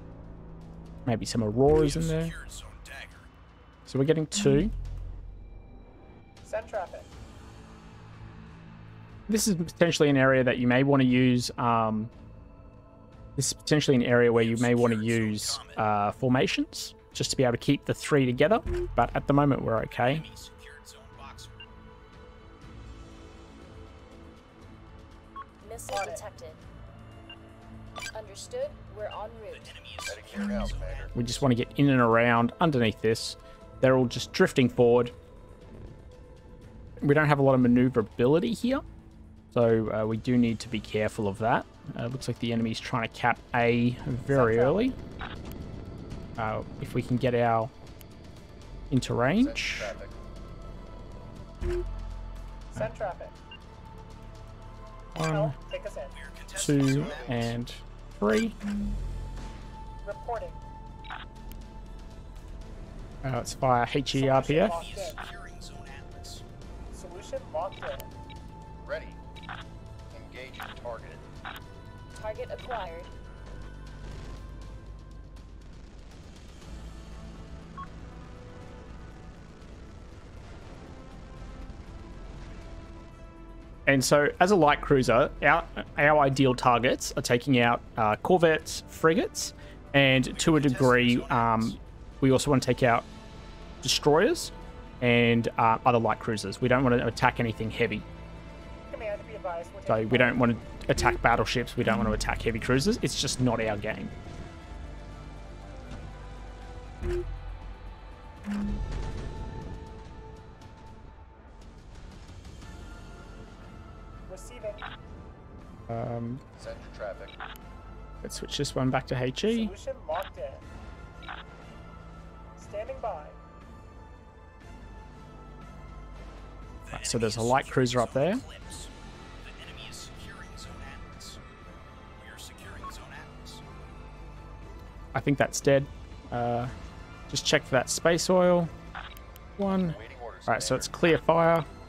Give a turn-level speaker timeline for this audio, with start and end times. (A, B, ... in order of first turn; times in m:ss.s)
0:01.0-0:02.3 A
0:01.7-0:03.3 B
0:03.9-0:04.7 A
0:06.4-0:07.1 C
0:09.3-0:12.1 A
0:13.4-0:20.2 A
0:14.3-0:15.8 B
0:19.9-0:21.6 B
0:25.6-0:26.6 D
0:25.9-0:26.2 C
0:28.1-0:29.8 D
0:29.5-0:31.2 B
0:30.1-0:31.4 E
0:31.1-0:35.1 A
0:37.0-0:38.8 A
0:39.5-0:45.0 A
0:44.3-0:44.9 C
0:46.4-0:47.7 A
0:48.9-0:49.9 A
0:49.3-0:50.2 E
0:52.7-0:53.4 C
0:55.1-0:55.6 A
0:55.3-0:56.2 C
0:56.1-0:57.6 B
0:56.5-0:58.6 A
0:57.0-0:57.3 E
1:00.0-1:00.6 C
1:03.2-1:04.8 A
1:04.1-1:05.2 C
1:04.4-1:06.4 B
1:06.9-1:08.1 C
1:08.8-1:09.2 E
1:10.1-1:11.2 E
1:12.1-1:13.1 D
1:23.8-1:33.1 A
1:30.3-1:31.8 B
1:33.8-1:38.1 A
1:38.9-1:40.5 C
1:39.9-1:44.1 A
1:54.3-1:54.8 C
1:55.9-1:56.4 A
1:56.6-1:57.4 E
1:58.2-1:59.7 A
1:59.4-2:00.6 C
2:02.6-2:03.4 C
2:06.8-2:08.9 B
2:06.9-2:08.4 A
2:09.4-2:11.4 B
2:12.2-2:13.6 B
2:15.1-2:16.7 A
2:17.3-2:18.7 A
2:19.6-2:21.7 A
2:19.8-2:20.9 E